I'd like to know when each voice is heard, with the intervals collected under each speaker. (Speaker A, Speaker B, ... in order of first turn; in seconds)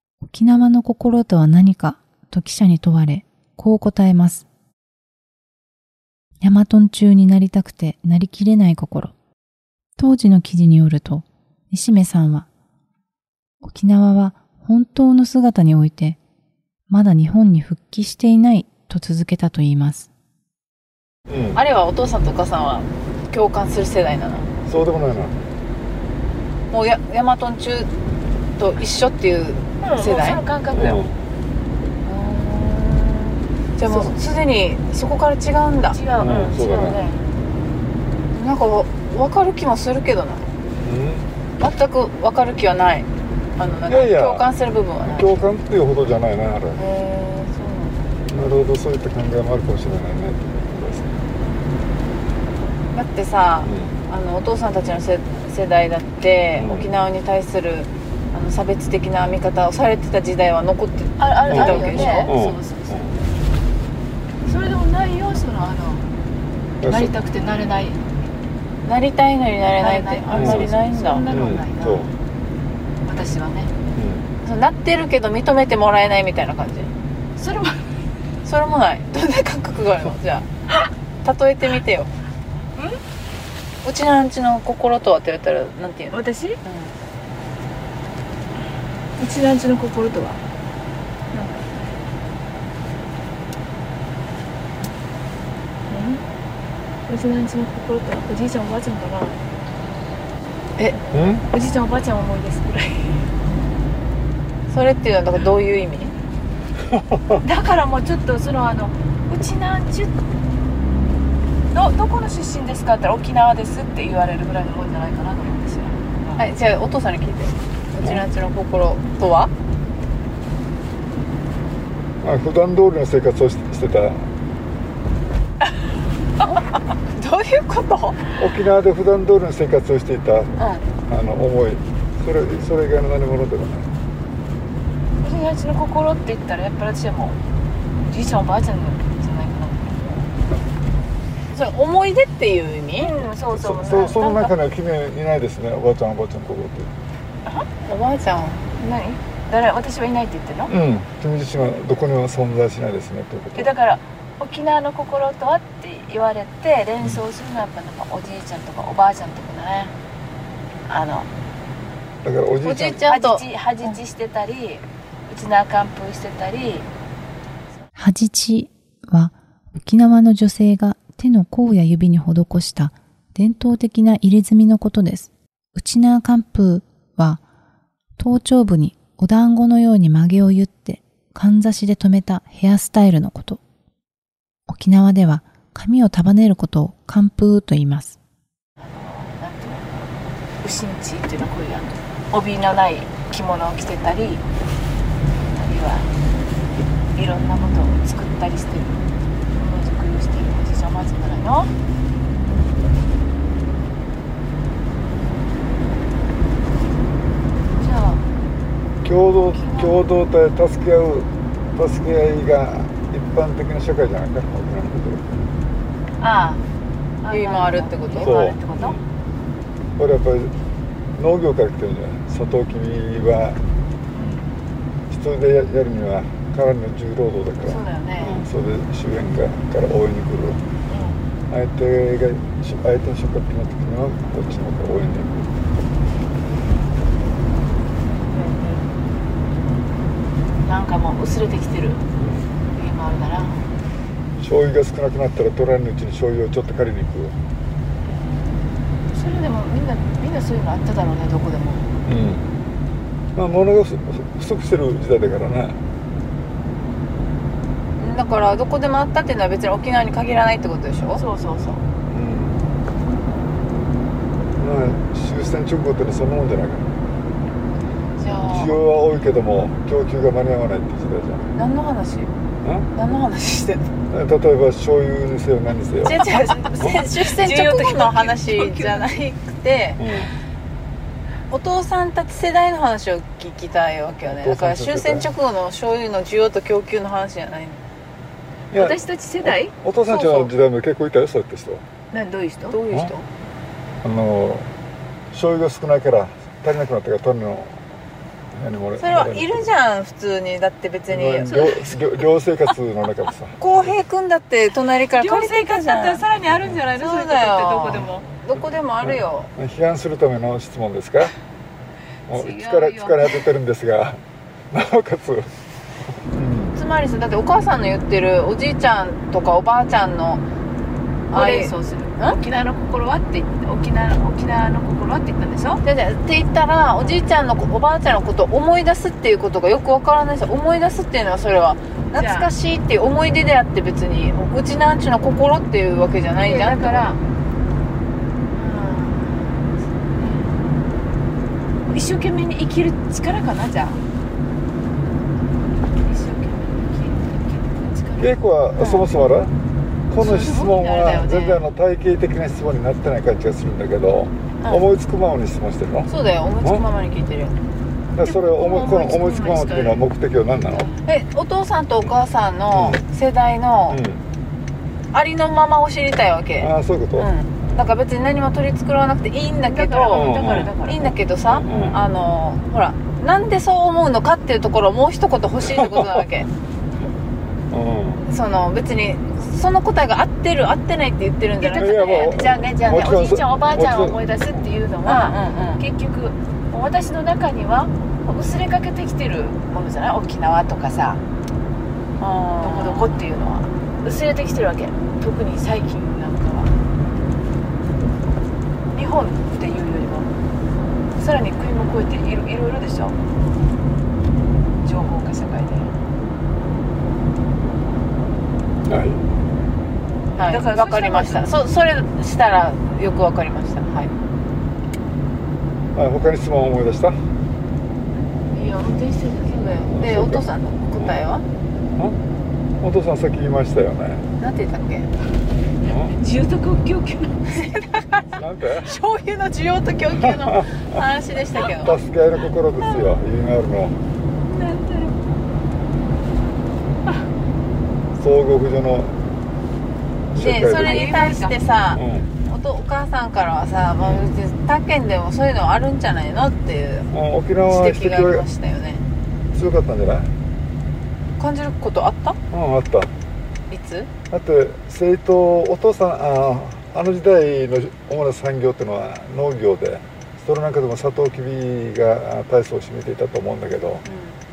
Speaker A: 0.2-4.5, 6.4-9.1, 10.0-12.5, 13.6-16.2, 16.9-20.1, 168.0-177.4, 178.2-183.6, 184.7-188.2
Speaker B: 21.3-21.6, 24.7-25.4, 30.7-31.2, 36.2-37.0, 40.8-41.3, 43.9-44.5, 45.0-46.8, 48.3-51.2, 53.7-54.0, 56.6-56.9, 61.5-63.2, 66.8-67.1, 70.3-70.7, 71.3-72.1, 74.0-74.3, 101.1-101.5, 106.9-107.4, 122.2-124.3, 128.4-130.5, 131.1-133.9, 143.4-146.9, 150.7-153.7, 162.2-163.1, 209.0-215.3, 218.2-219.0, 220.0-220.5, 221.2-223.6, 225.1-230.6, 231.5-235.5, 242.2-242.5, 244.4-247.4, 252.1-252.4, 253.3-255.8, 262.1-262.6, 264.6-266.9, 268.4-271.5, 272.6-272.9, 274.1-276.2, 280.0-280.3, 284.3-285.3, 288.7-291.9, 294.0-294.7, 295.3-297.8, 298.5-299.7, 301.1-303.6, 306.5-306.8, 309.0-311.3, 312.3-315.5, 316.3-316.8, 348.2-349.5, 350.1-356.1, 358.1-360.9, 362.7-363.0, 363.9-364.2, 366.6-367.3, 370.1-370.7, 371.5-372.0, 375.6-376.2, 377.7-378.2, 381.8-384.6, 408.9-409.2, 415.9-417.2, 419.9-420.4, 422.8-424.3, 425.8-426.2, 428.4-429.0, 430.1-431.0, 431.6-434.0, 438.2-439.2, 440.3-441.1, 441.9-442.3, 447.1-448.5, 449.5-450.3, 452.5-453.1, 454.3-464.1
Speaker C: 21.6-24.5, 26.7-27.9, 28.6-30.4, 32.0-36.0, 38.3-40.5, 41.6-45.3, 46.8-48.1, 52.9-62.3, 68.8-71.2, 74.4-76.9, 78.4-80.5, 81.2-82.1, 83.8-87.0, 104.7-106.1, 116.4-119.5, 127.1-128.2, 130.6-130.8, 141.5-143.1, 147.9-148.6, 162.6-164.0, 217.3-218.5, 258.0-261.2, 268.2-268.7, 271.6-272.3, 272.9-273.9, 276.1-280.1, 281.5-287.8, 292.7-293.3, 299.0-301.5, 303.6-306.2, 307.0-309.5, 316.8-320.4, 321.3-322.4, 325.8-337.1, 350.2-351.5, 356.1-357.6, 361.1-364.0, 365.1-376.5, 378.2-382.4, 385.1-385.8, 392.2-393.2, 410.4-414.1, 419.8-421.4, 424.4-425.1, 427.7-432.0, 440.4-447.1, 447.7-449.0, 451.4-452.4, 453.7-454.1, 464.1-464.4
Speaker D: 29.8-31.0, 33.8-34.1, 35.9-37.2, 61.2-63.1, 64.5-66.0, 66.8-68.0, 69.8-72.1, 73.0-73.7, 77.4-77.9, 86.1-86.6, 89.2-90.4, 91.3-91.6, 95.9-96.2, 97.1-99.4, 101.5-103.3, 107.4-110.2, 111.7-116.4, 135.2-137.4, 138.1-140.2, 142.9-144.5, 148.8-150.7, 153.6-159.9, 160.9-161.3, 163.0-166.9, 188.8-190.1, 190.6-194.4, 195.6-196.1, 197.2-201.7, 207.8-208.2, 209.5-210.0, 216.2-216.6, 217.2-219.0, 224.2-224.5, 227.7-228.4, 230.9-231.2, 238.3-238.8, 240.7-242.0, 242.8-243.6, 249.1-251.9, 261.2-261.8, 276.1-279.2, 288.7-290.5, 292.1-292.8, 301.5-302.0, 305.1-308.3, 312.3-313.4, 321.3-325.8, 332.1-332.5, 336.4-337.2, 338.5-340.5, 341.9-344.0, 346.0-348.3, 350.2-351.2, 358.2-360.0, 360.6-361.0, 369.6-371.0, 381.6-391.2, 392.6-396.8, 398.9-400.3, 401.2-403.2, 404.8-405.9, 410.4-411.5, 418.5-419.9, 426.1-428.0, 434.5-435.3, 440.7-441.6